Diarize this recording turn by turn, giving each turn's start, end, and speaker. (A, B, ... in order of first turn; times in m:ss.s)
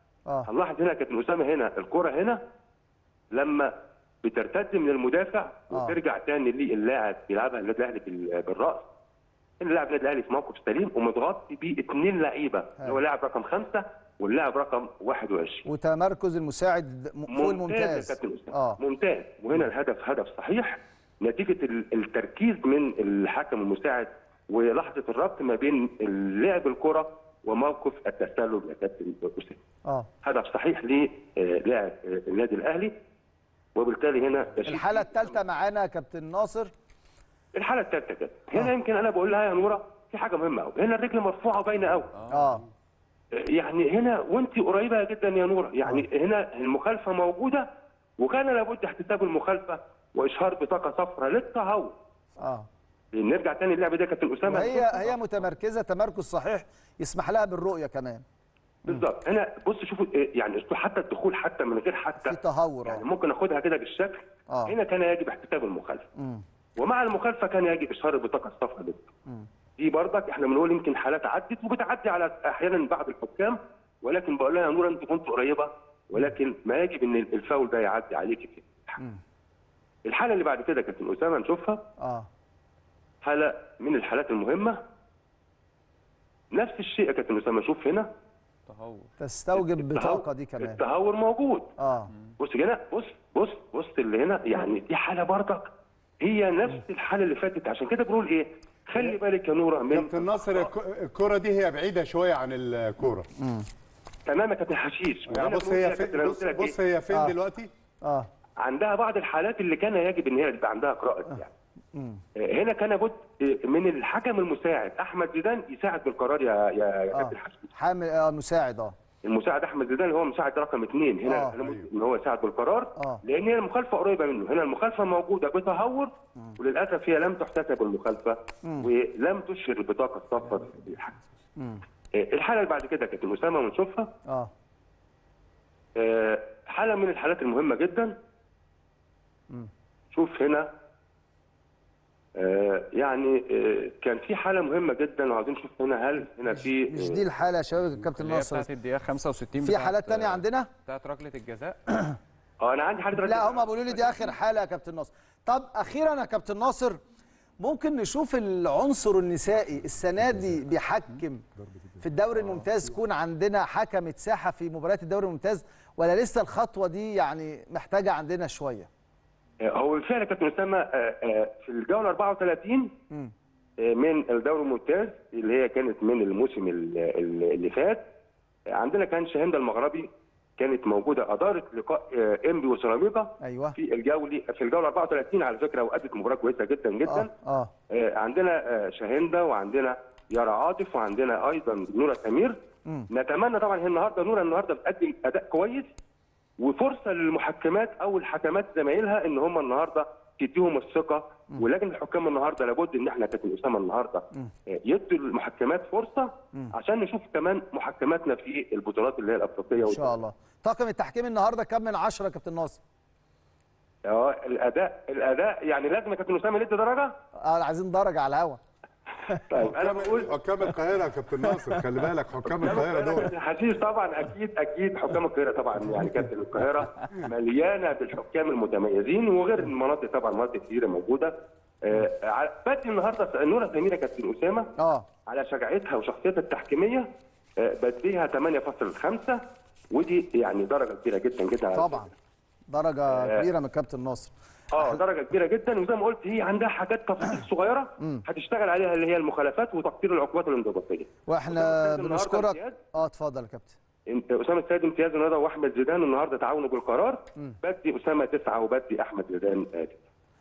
0:00.5-0:02.4 A
0:03.3-0:03.7 A
0:04.2-0:08.8 A
0:09.6-0:15.6 A
0:15.6-0:18.8 B
0:17.3-0:29.6 A
0:30.2-0:33.0 A
0:33.8-0:35.4 A
0:34.6-0:36.7 B
0:37.5-0:42.1 A
0:42.3-0:42.6 B
0:43.3-0:52.0 A
0:52.4-0:52.7 B
0:53.1-0:55.0 A
0:54.4-0:58.2 B
0:58.9-1:06.1 A
1:02.2-1:03.0 B
1:06.2-1:06.4 B
1:06.8-1:09.1 A
1:09.8-1:19.0 A
1:20.0-1:21.8 A
1:22.0-1:22.3 B
1:23.2-1:24.8 A
1:26.5-1:28.1 A
1:28.7-1:29.1 C
1:29.2-1:30.8 B
1:29.6-1:31.7 A
1:31.8-1:32.1 B
1:32.4-1:40.7 A
1:39.9-1:43.3 D
1:43.4-1:43.7 B
1:44.2-1:46.8 A
1:45.3-1:47.7 D
1:48.6-1:51.5 A
1:51.9-1:52.2 B
1:52.4-1:57.7 A
1:57.1-1:58.9 B
1:59.2-2:11.2 A
2:01.2-2:01.5 B
2:01.6-2:01.8 D
2:03.0-2:03.2 B
2:12.2-2:14.1 A
2:16.0-2:18.2 A
2:20.1-2:20.7 A
2:22.4-2:27.2 A
2:26.9-2:28.7 B
2:28.2-2:32.1 C
2:29.6-2:30.7 B
2:32.6-2:34.3 A
2:33.2-2:37.0 B
2:37.6-2:41.4 B
2:40.2-2:40.6 D
2:41.6-2:42.0 D
2:42.0-2:48.9 B
2:49.6-2:52.9 A
2:53.8-2:58.0 A
2:58.7-3:07.3 A
3:03.4-3:03.8 B
3:07.0-3:07.7 B
3:07.9-3:12.6 A
3:13.1-3:15.9 A
3:16.6-3:30.2 A
3:29.8-3:32.8 B
3:34.0-3:37.2 A
3:37.4-3:38.6 B
3:39.5-3:40.4 A
3:39.6-3:43.3 D
3:42.4-3:54.7 A
3:54.8-3:55.0 B
3:55.2-4:02.1 A
4:01.7-4:02.1 B
4:02.7-4:04.3 B
4:03.1-4:03.5 A
4:04.7-4:12.8 A
4:11.3-4:13.8 B
4:14.1-4:20.0 A